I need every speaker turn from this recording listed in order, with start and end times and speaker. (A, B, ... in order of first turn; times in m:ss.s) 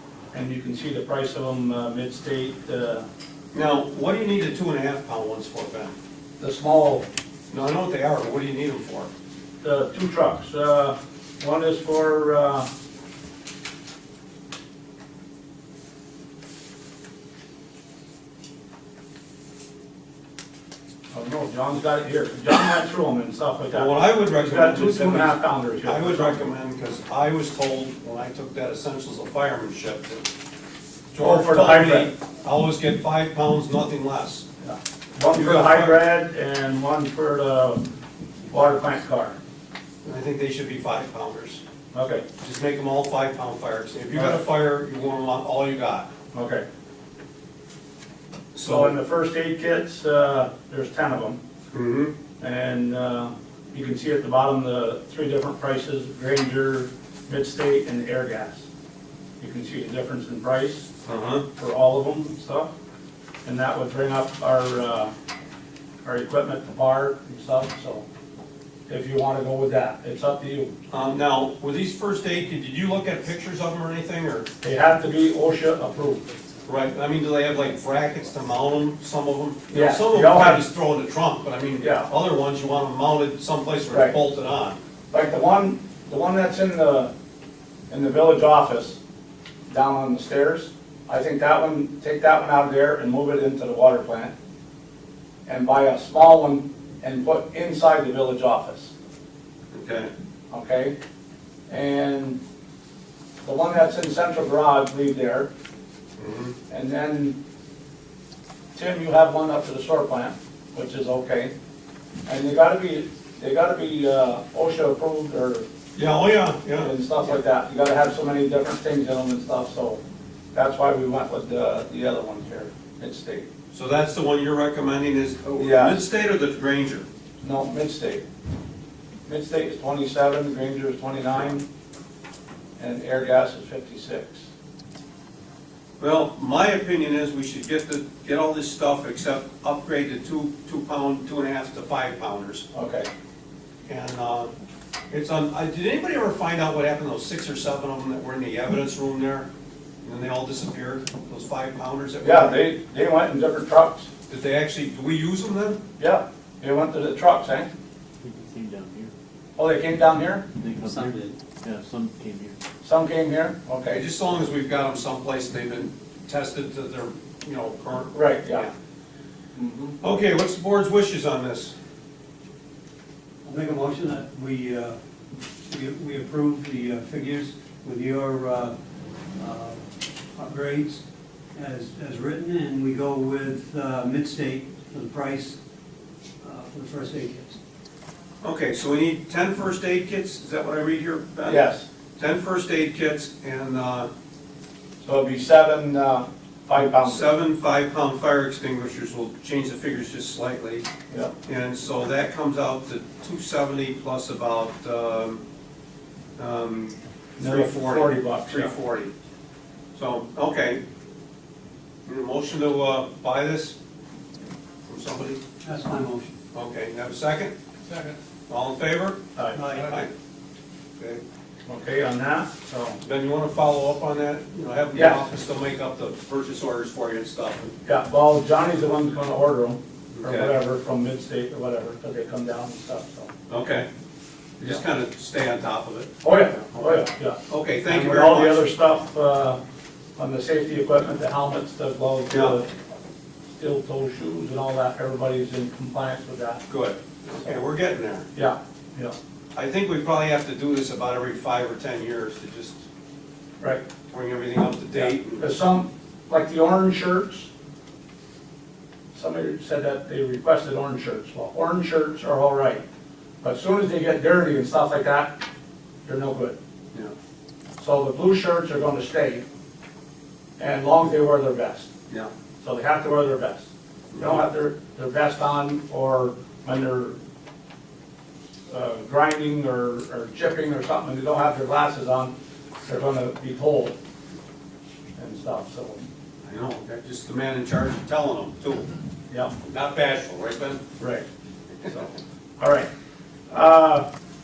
0:00.3-0:03.0 A
0:03.5-0:05.9 B
0:06.4-0:07.0 A
0:07.5-0:09.1 B
0:09.6-0:12.7 A
0:21.1-0:26.4 A
0:23.7-0:30.3 B
0:31.1-0:34.4 B
0:31.2-0:32.1 A
0:34.6-0:37.8 A
0:35.2-0:36.0 B
0:38.5-0:39.4 A
0:40.0-0:41.6 B
0:41.9-0:42.2 A
0:42.4-0:46.1 B
0:44.1-0:44.4 A
0:46.3-0:46.6 A
0:48.5-0:49.0 B
0:48.6-0:51.4 A
0:51.7-0:52.1 B
0:52.4-0:58.7 A
0:59.4-1:00.9 A
1:01.0-1:01.4 B
1:01.6-1:02.7 A
1:03.4-1:05.1 A
1:06.0-1:08.0 A
1:08.9-1:10.7 A
1:10.9-1:14.5 B
1:14.6-1:16.2 A
1:16.6-1:24.8 B
1:19.7-1:20.6 A
1:21.8-1:22.1 A
1:23.9-1:24.1 A
1:25.1-1:27.1 A
1:27.9-1:29.0 A
1:29.7-1:34.3 A
1:35.4-1:38.9 A
1:39.7-1:40.1 B
1:40.5-1:41.0 A
1:41.7-1:42.4 A
1:43.4-1:45.5 A
1:46.2-1:46.5 B
1:46.7-1:47.4 A
1:48.7-1:51.5 A
1:52.2-1:55.7 A
1:55.9-1:56.9 B
1:56.8-2:00.0 A
2:00.5-2:03.4 A
2:03.7-2:07.0 B
2:05.6-2:06.0 A
2:07.4-2:08.2 A
2:09.2-2:11.7 A
2:12.8-2:14.5 A
2:16.0-2:22.6 B
2:22.7-2:23.1 A
2:23.9-2:24.5 B
2:25.1-2:29.5 B
2:30.0-2:32.7 B
2:32.2-2:34.1 A
2:34.3-2:35.8 B
2:36.0-2:37.7 A
2:38.2-2:39.1 C
2:39.6-2:40.4 A
2:40.6-2:42.6 C
2:42.8-2:44.0 A
2:43.9-2:48.7 B
2:48.1-2:48.7 A
2:49.6-2:49.9 A
2:50.0-2:51.7 B
2:53.4-2:55.0 D
2:55.6-2:58.7 D
2:59.4-2:59.8 D
3:00.4-3:01.0 D
3:01.5-3:05.6 D
3:06.4-3:07.6 D
3:08.4-3:11.7 B
3:11.4-3:11.8 A
3:12.2-3:14.1 B
3:15.0-3:17.3 A
3:17.0-3:20.8 B
3:21.4-3:25.4 B
3:26.4-3:29.1 B
3:27.4-3:28.7 A
3:29.9-3:30.8 B
3:32.0-3:33.8 B
3:34.9-3:35.4 B
3:35.6-3:36.4 D
3:36.5-3:37.5 B
3:38.5-3:40.1 B
3:39.4-3:39.6 A
3:39.5-3:39.9 D
3:41.0-3:41.2 B
3:41.7-3:43.0 A
3:43.0-3:47.7 B
3:44.9-3:45.3 A
3:47.8-3:53.3 A
3:50.1-3:50.5 B
3:53.5-3:53.9 B
3:54.6-3:58.7 B
3:56.2-3:59.6 A
4:00.2-4:02.7 A
4:02.3-4:02.6 B
4:03.5-4:06.6 A
4:06.7-4:08.3 B
4:07.3-4:07.6 A
4:08.3-4:09.2 A
4:09.5-4:12.8 B
4:14.1-4:15.5 B
4:14.9-4:17.5 A
4:19.1-4:22.8 A
4:23.4-4:25.4 A
4:26.0-4:26.6 A
4:27.8-4:29.4 A
4:30.6-4:31.9 A
4:32.6-4:37.2 A
4:34.1-4:34.4 B
4:38.7-4:42.3 A
4:42.8-4:44.0 A
4:45.2-4:46.0 A
4:46.4-4:48.9 B
4:49.6-4:50.8 B
4:51.0-4:51.2 A
4:51.8-4:52.9 A
4:53.5-4:54.1 A